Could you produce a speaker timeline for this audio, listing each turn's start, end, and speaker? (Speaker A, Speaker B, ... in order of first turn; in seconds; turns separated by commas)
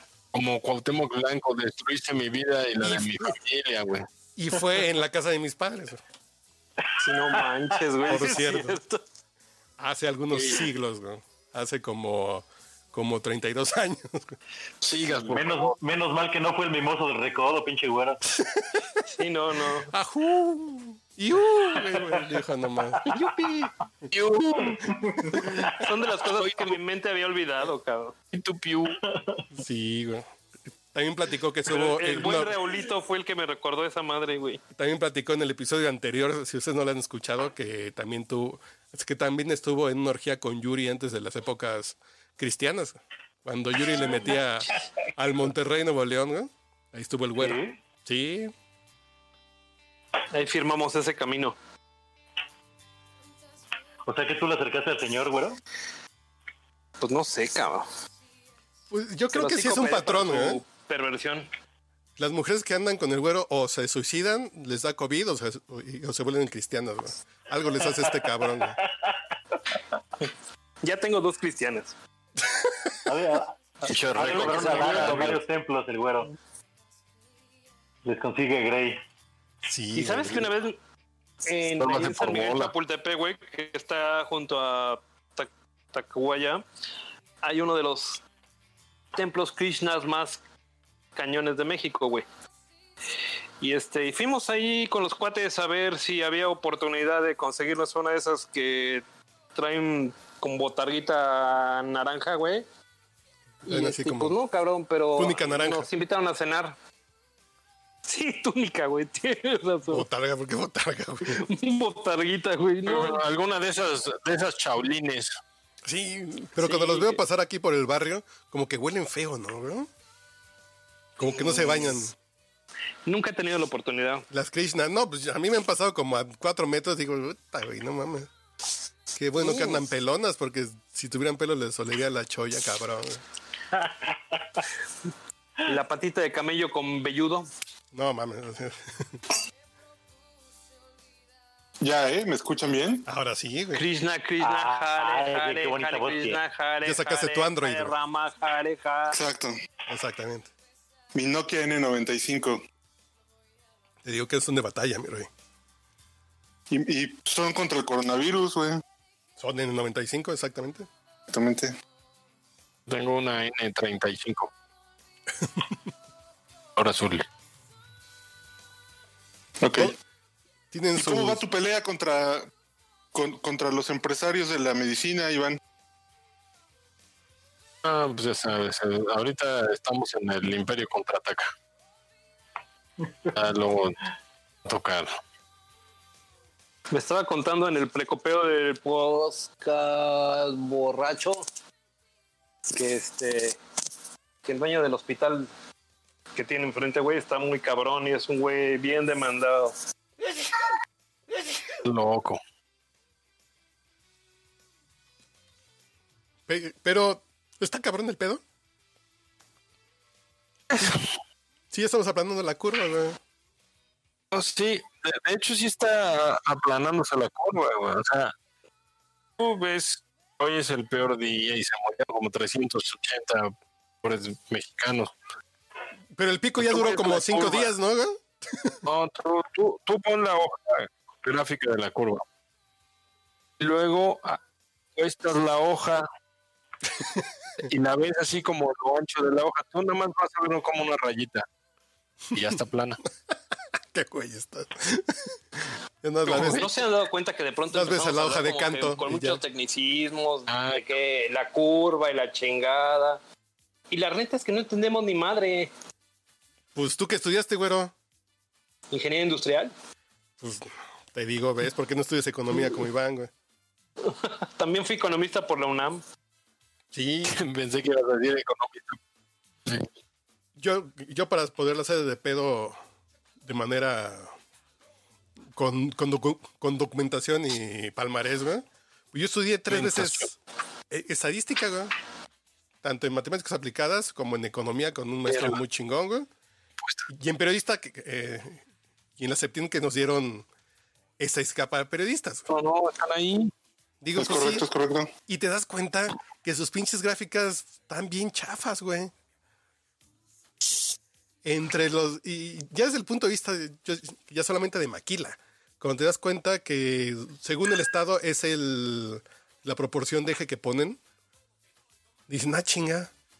Speaker A: 0.3-4.1, Speaker B: 4.4-6.0, Speaker C: 7.0-9.0, Speaker B: 8.1-8.8, Speaker B: 9.8-14.4, Speaker A: 10.3-10.7, Speaker A: 14.8-15.8, Speaker D: 15.1-18.2, Speaker B: 18.4-19.0, Speaker C: 19.1-19.9, Speaker B: 19.9-23.0, Speaker D: 21.8-22.2, Speaker C: 23.1-23.7, Speaker A: 24.1-24.9, Speaker D: 24.7-25.8, Speaker C: 25.6-28.1, Speaker A: 26.3-26.8, Speaker A: 28.3-29.0, Speaker D: 29.1-29.4, Speaker B: 29.5-30.3, Speaker B: 30.9-32.6, Speaker C: 31.7-34.6, Speaker B: 34.7-48.5, Speaker D: 47.4-47.8, Speaker C: 50.3-51.6, Speaker D: 54.1-55.6, Speaker C: 57.0-57.9, Speaker B: 58.9-60.6, Speaker C: 59.3-61.5, Speaker B: 62.2-68.8, Speaker D: 68.8-69.1, Speaker C: 70.8-72.0, Speaker B: 72.4-73.0, Speaker D: 73.1-76.3, Speaker A: 73.9-75.4, Speaker C: 74.2-75.3, Speaker D: 78.0-79.0, Speaker B: 79.7-80.5, Speaker C: 80.0-80.8, Speaker C: 81.5-86.6, Speaker A: 81.8-82.7, Speaker C: 87.4-88.2, Speaker C: 89.1-90.4, Speaker C: 91.2-92.3, Speaker C: 93.6-99.0, Speaker C: 99.5-102.7, Speaker B: 103.6-104.4, Speaker C: 103.7-106.8, Speaker B: 105.2-105.9, Speaker C: 108.1-110.1, Speaker B: 109.9-111.4, Speaker C: 111.2-113.2, Speaker A: 112.9-115.4, Speaker B: 115.8-119.9, Speaker C: 116.6-117.2, Speaker B: 121.2-122.2, Speaker C: 123.1-124.2, Speaker B: 124.3-128.3, Speaker B: 129.1-133.2, Speaker C: 129.4-129.8, Speaker D: 133.7-134.6, Speaker C: 135.7-137.5, Speaker B: 137.9-139.2, Speaker E: 141.8-143.1, Speaker B: 143.1-143.8, Speaker C: 143.7-149.2, Speaker D: 144.4-146.4, Speaker B: 146.8-147.9, Speaker E: 149.1-149.6, Speaker B: 149.9-150.5, Speaker E: 151.2-152.6, Speaker B: 154.0-155.3, Speaker E: 156.7-158.8, Speaker B: 159.4-160.9, Speaker E: 161.3-161.8, Speaker A: 162.9-164.5, Speaker B: 165.4-165.8, Speaker A: 166.8-167.3, Speaker E: 169.6-169.9, Speaker B: 170.7-171.4, Speaker E: 171.0-172.5, Speaker E: 173.1-175.6, Speaker A: 177.8-181.5, Speaker A: 183.3-184.0, Speaker A: 184.7-185.1, Speaker C: 186.9-191.4, Speaker C: 192.7-193.6, Speaker C: 194.4-195.5, Speaker C: 196.3-199.8, Speaker A: 201.8-202.4, Speaker B: 206.5-208.4, Speaker A: 210.7-211.1, Speaker B: 211.7-213.2, Speaker A: 214.3-218.3, Speaker A: 219.4-225.1, Speaker B: 226.2-228.8, Speaker A: 226.6-227.7, Speaker A: 228.8-232.2, Speaker A: 233.6-234.4, Speaker A: 235.0-236.1, Speaker B: 237.0-237.3, Speaker A: 237.7-241.4, Speaker A: 242.3-243.0, Speaker B: 243.9-246.7, Speaker C: 246.3-253.2, Speaker A: 246.3-246.6, Speaker B: 247.7-249.4, Speaker A: 250.5-250.8, Speaker C: 253.9-255.7, Speaker B: 256.8-257.9, Speaker C: 258.9-259.7, Speaker B: 260.4-263.3, Speaker C: 264.1-266.0, Speaker B: 266.9-267.4, Speaker A: 267.3-269.0, Speaker B: 270.6-272.8, Speaker B: 273.4-274.3, Speaker B: 275.6-280.4, Speaker A: 279.7-280.3, Speaker B: 280.9-281.9, Speaker B: 282.8-286.3, Speaker A: 285.3-285.6, Speaker B: 287.1-288.6, Speaker B: 289.2-290.5, Speaker B: 291.2-292.5, Speaker A: 292.5-293.5, Speaker B: 294.0-294.7, Speaker E: 294.2-295.1, Speaker B: 295.3-299.1, Speaker B: 301.4-311.0, Speaker B: 312.3-313.1